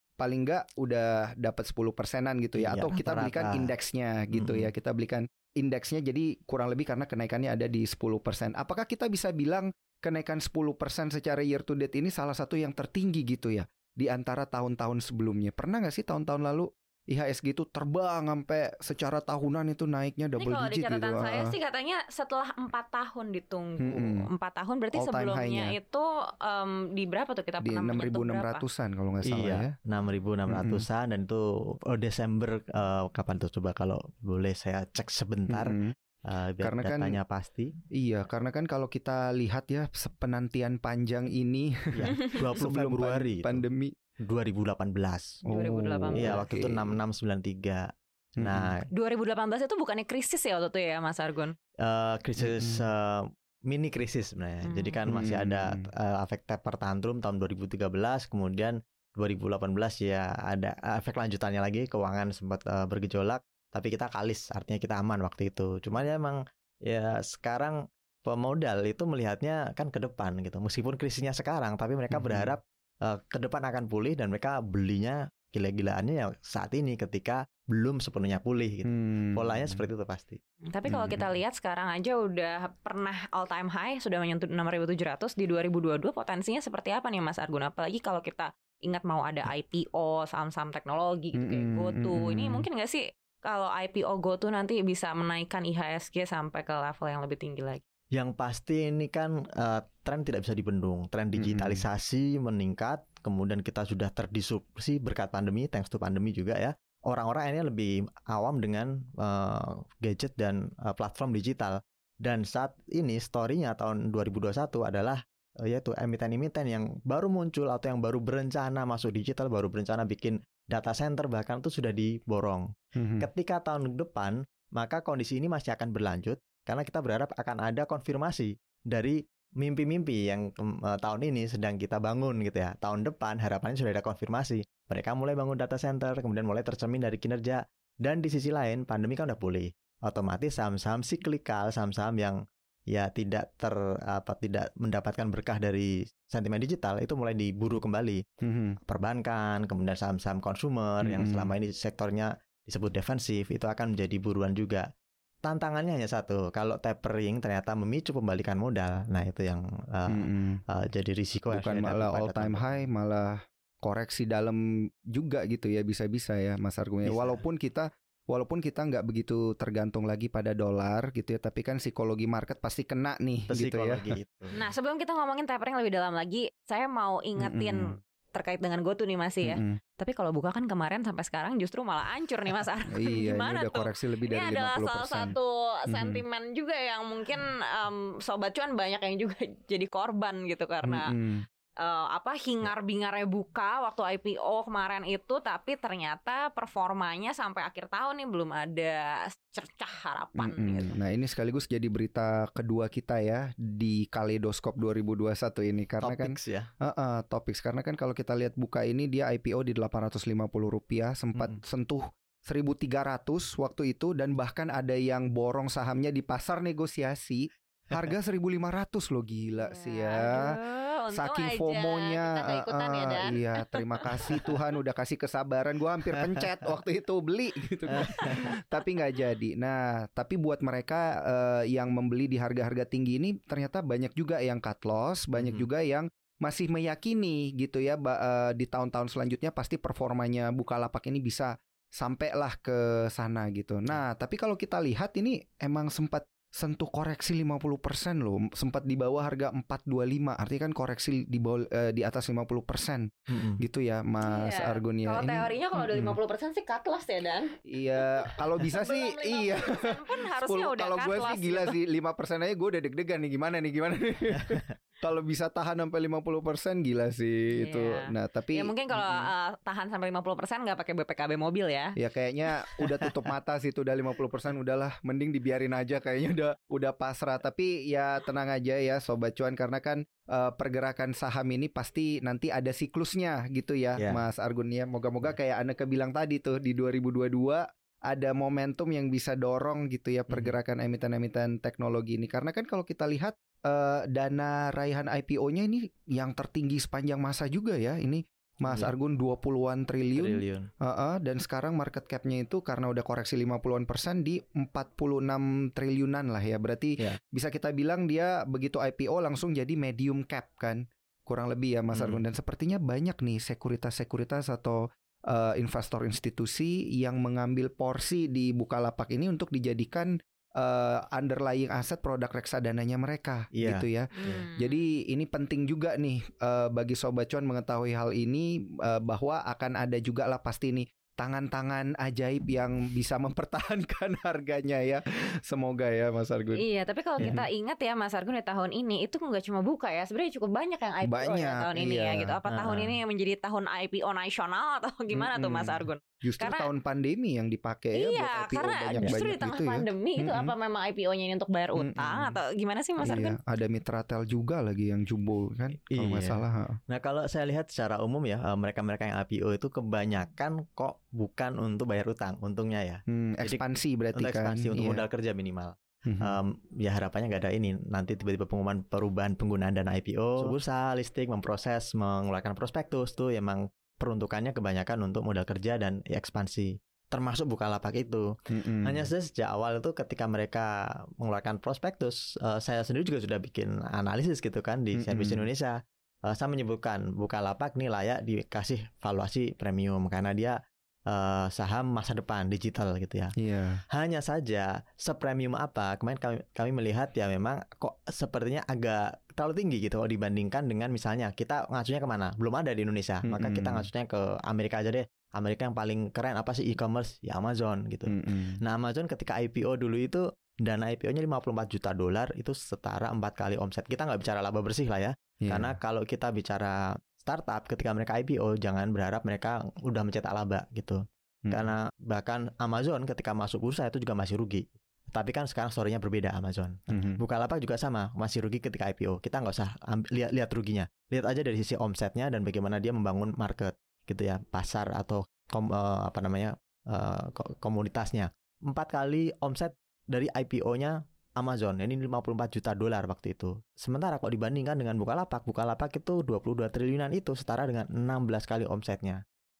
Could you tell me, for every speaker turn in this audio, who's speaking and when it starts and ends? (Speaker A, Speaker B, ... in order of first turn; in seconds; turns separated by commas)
Speaker A: 0.2-21.5, Speaker B: 2.6-3.7, Speaker B: 4.3-4.7, Speaker C: 20.4-28.6, Speaker A: 23.8-24.2, Speaker A: 24.9-25.8, Speaker A: 27.6-29.7, Speaker B: 29.2-37.7, Speaker A: 30.5-30.8, Speaker A: 35.5-35.9, Speaker A: 36.6-37.1, Speaker A: 38.0-43.9, Speaker B: 41.9-43.6, Speaker B: 44.3-45.3, Speaker A: 45.5-46.9, Speaker C: 45.5-46.4, Speaker B: 46.2-47.8, Speaker A: 48.4-48.7, Speaker B: 48.4-48.8, Speaker C: 48.9-51.5, Speaker B: 51.8-80.4, Speaker A: 52.4-52.8, Speaker C: 54.6-55.0, Speaker A: 55.1-55.9, Speaker A: 72.1-72.5, Speaker A: 78.8-79.8, Speaker C: 80.7-97.8, Speaker B: 80.9-81.2, Speaker A: 91.4-92.6, Speaker B: 98.1-122.6, Speaker A: 101.4-101.8, Speaker A: 123.0-123.3, Speaker B: 123.2-142.4, Speaker B: 142.9-148.2, Speaker A: 148.4-148.8, Speaker B: 148.8-154.8, Speaker A: 151.0-151.5, Speaker B: 155.4-162.8, Speaker A: 160.1-160.6, Speaker A: 161.5-164.6, Speaker A: 165.1-174.0, Speaker B: 167.0-167.4, Speaker B: 173.5-174.6, Speaker C: 174.5-191.1, Speaker A: 177.4-178.0, Speaker A: 179.4-179.8, Speaker A: 182.9-185.3, Speaker A: 185.9-186.2, Speaker A: 190.8-191.4, Speaker C: 191.8-200.9, Speaker A: 200.4-220.6, Speaker B: 206.0-206.7, Speaker C: 219.6-224.6, Speaker A: 221.1-255.5, Speaker B: 227.9-228.4, Speaker B: 235.4-235.7, Speaker B: 253.3-253.6, Speaker C: 254.2-261.8, Speaker A: 257.7-269.1, Speaker C: 267.6-271.9, Speaker A: 272.0-336.6, Speaker B: 290.3-290.5, Speaker B: 298.7-298.9, Speaker B: 300.1-300.7, Speaker B: 311.9-312.2, Speaker B: 323.5-324.4, Speaker C: 324.1-324.8, Speaker C: 336.6-346.7, Speaker A: 341.1-342.3, Speaker B: 342.5-342.9, Speaker A: 345.1-350.5, Speaker C: 347.9-353.4, Speaker A: 351.8-352.4, Speaker A: 353.0-356.8, Speaker B: 355.9-363.6, Speaker A: 363.1-365.0, Speaker B: 364.1-378.2, Speaker A: 366.1-366.4, Speaker A: 378.5-379.1, Speaker B: 378.8-385.7, Speaker A: 384.9-385.4, Speaker B: 386.3-390.6, Speaker B: 391.1-393.3, Speaker A: 393.4-393.8, Speaker B: 393.9-408.1, Speaker A: 403.2-403.9, Speaker A: 408.1-408.6, Speaker B: 408.6-449.2, Speaker A: 415.4-415.7, Speaker A: 421.5-421.7, Speaker A: 426.9-427.2